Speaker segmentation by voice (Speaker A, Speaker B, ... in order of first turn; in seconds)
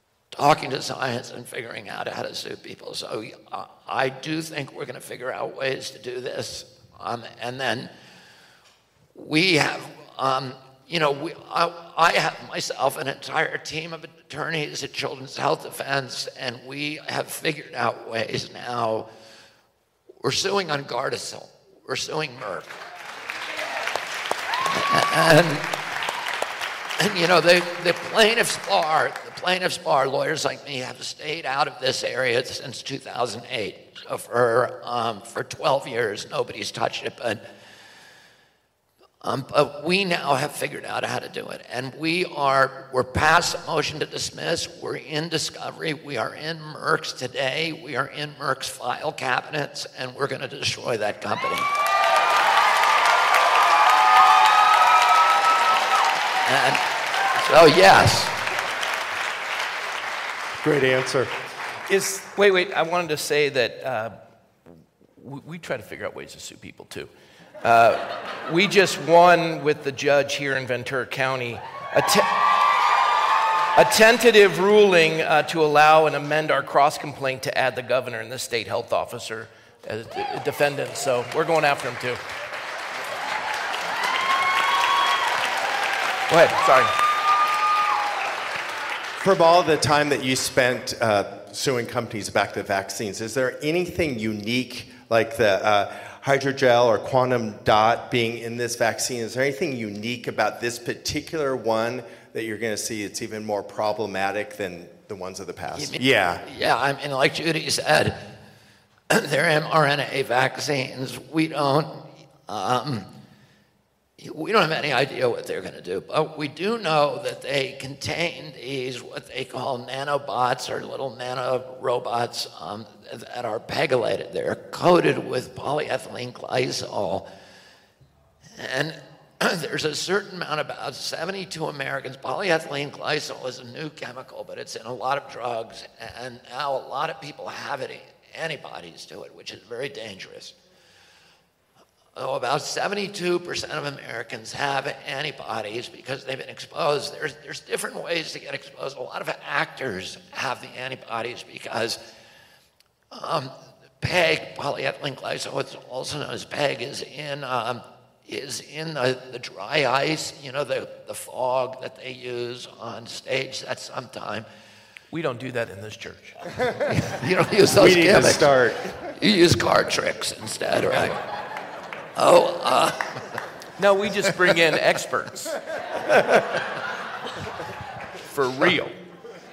Speaker A: 0.3-7.9, 9.2-19.1, 20.2-22.8, 24.6-25.8, 27.0-37.4, 39.2-51.7, 56.4-58.4, 105.7-108.4, 109.1-113.1, 114.2-127.3, 128.6-140.6, 142.2-152.0, 153.1-164.5, 166.9-168.6, 169.1-171.3, 172.2-173.4
Speaker B: 60.6-62.3, 89.2-106.5, 167.8-169.1
Speaker C: 62.4-64.2, 64.7-67.1, 67.6-72.5, 73.8-82.2, 86.3-86.9, 165.1-166.4, 173.8-175.6, 178.2-178.9